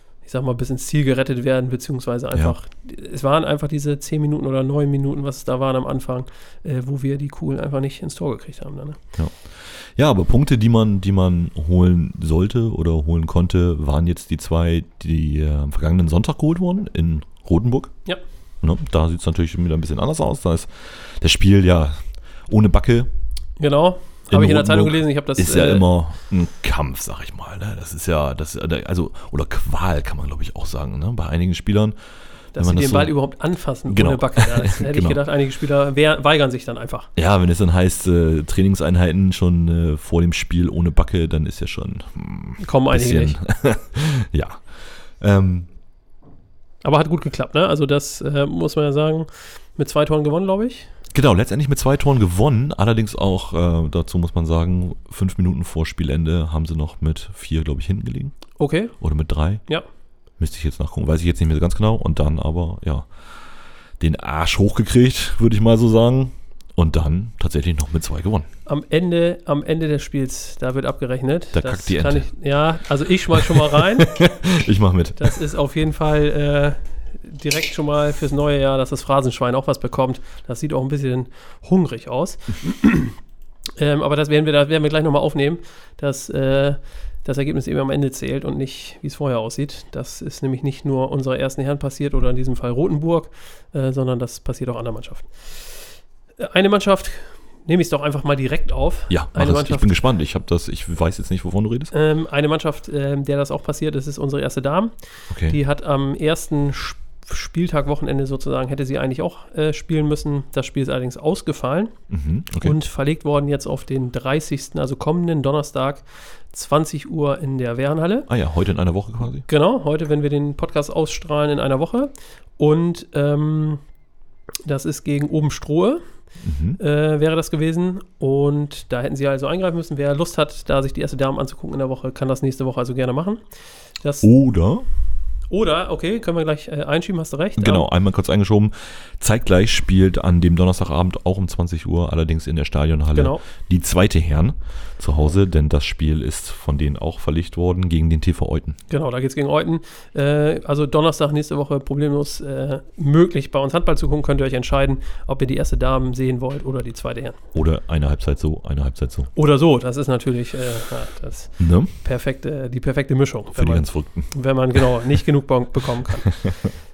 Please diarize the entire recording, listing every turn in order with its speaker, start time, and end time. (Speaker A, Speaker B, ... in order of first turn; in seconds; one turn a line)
Speaker A: 0.2-9.0
Speaker B: 9.2-17.9
Speaker B: 18.6-21.9
Speaker B: 22.5-23.1
Speaker A: 23.6-25.9
Speaker B: 24.3-31.9
Speaker A: 32.5-37.1
Speaker B: 32.6-33.1
Speaker B: 33.9-35.2
Speaker B: 37.2-45.7
Speaker A: 42.6-43.4
Speaker A: 46.8-50.9
Speaker B: 51.1-58.4
Speaker A: 58.6-59.0
Speaker B: 59.0-59.6
Speaker B: 60.4-63.1
Speaker B: 64.0-68.5
Speaker A: 68.7-74.1
Speaker B: 71.5-72.3
Speaker B: 73.3-75.3
Speaker A: 75.2-83.2
Speaker A: 83.8-95.8
Speaker A: 96.4-100.0
Speaker B: 99.1-101.9
Speaker A: 101.9-104.9
Speaker B: 105.3-105.6
Speaker A: 105.5-112.0
Speaker B: 112.1-112.8
Speaker A: 112.6-118.3
Speaker B: 118.3-119.5
Speaker A: 119.5-123.8
Speaker A: 124.7-126.0
Speaker B: 126.4-126.8
Speaker A: 126.8-133.4
Speaker A: 134.0-134.3
Speaker B: 134.2-134.9
Speaker A: 135.5-137.9
Speaker B: 137.6-148.8
Speaker A: 143.1-143.4
Speaker A: 148.9-157.4
Speaker B: 157.5-159.3
Speaker A: 159.3-166.4
Speaker B: 161.6-161.9
Speaker B: 163.6-164.3
Speaker B: 166.3-166.7